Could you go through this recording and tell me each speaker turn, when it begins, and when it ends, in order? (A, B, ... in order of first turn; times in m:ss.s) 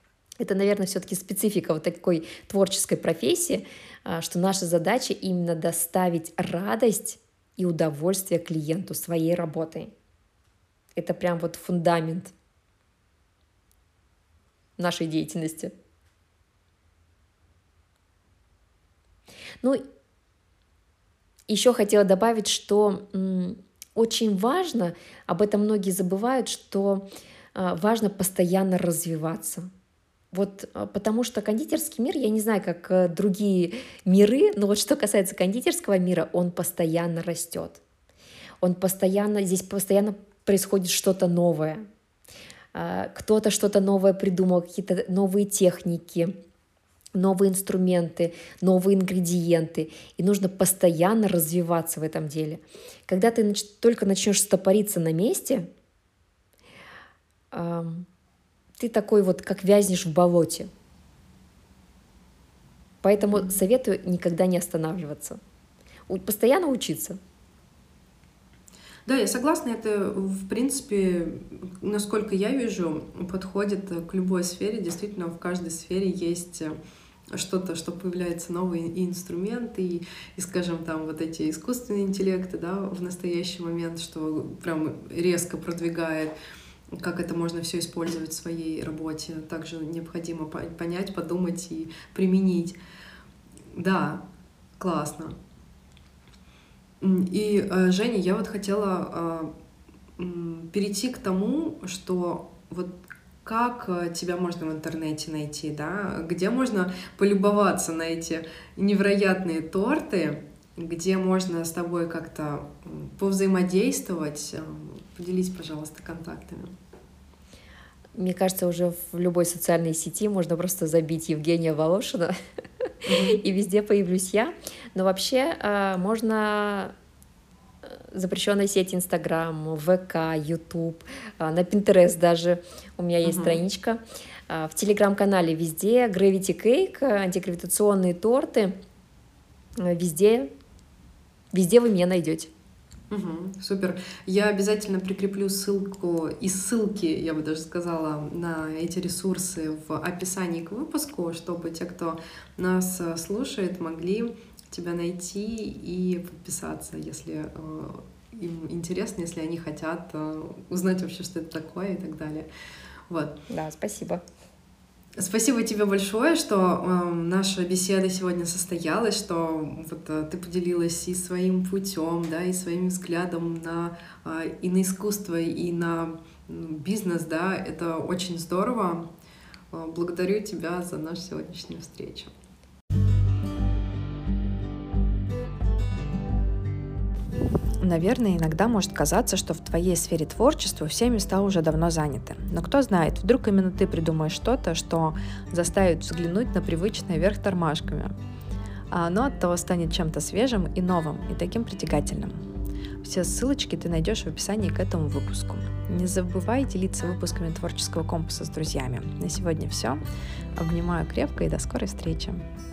0:00.4-0:09.9 A
0:10.9-0:12.3 A
0:14.8-0:15.7 A
0:21.5-0:29.7 A
0:30.3-0:37.8 A
0:38.6-0:41.8 A
0:42.7-0:46.3 A
0:47.1-0:55.7 A
0:57.5-0:58.1 A
0:58.8-1:00.7 A
1:03.0-1:05.4 A
1:06.1-1:07.2 A
1:09.0-1:16.8 B
1:17.3-1:26.3 B
1:26.9-1:32.8 B
1:33.7-1:34.2 B
1:34.8-1:35.4 B
1:37.0-1:39.5 B
1:40.2-1:56.7 B
1:58.1-2:02.4 A
2:03.0-2:03.4 B
2:03.3-2:06.9 A
2:07.8-2:18.8 A
2:13.2-2:13.6 B
2:19.8-2:20.5 A
2:21.5-2:22.5 A
2:23.1-2:42.5 B
2:43.1-2:43.4 B
2:43.5-2:44.2 A
2:45.2-2:59.1 B
2:59.7-3:02.3 B
3:07.8-3:18.1 C
3:18.9-3:22.4 C
3:23.0-3:30.0 C
3:30.6-3:32.4 C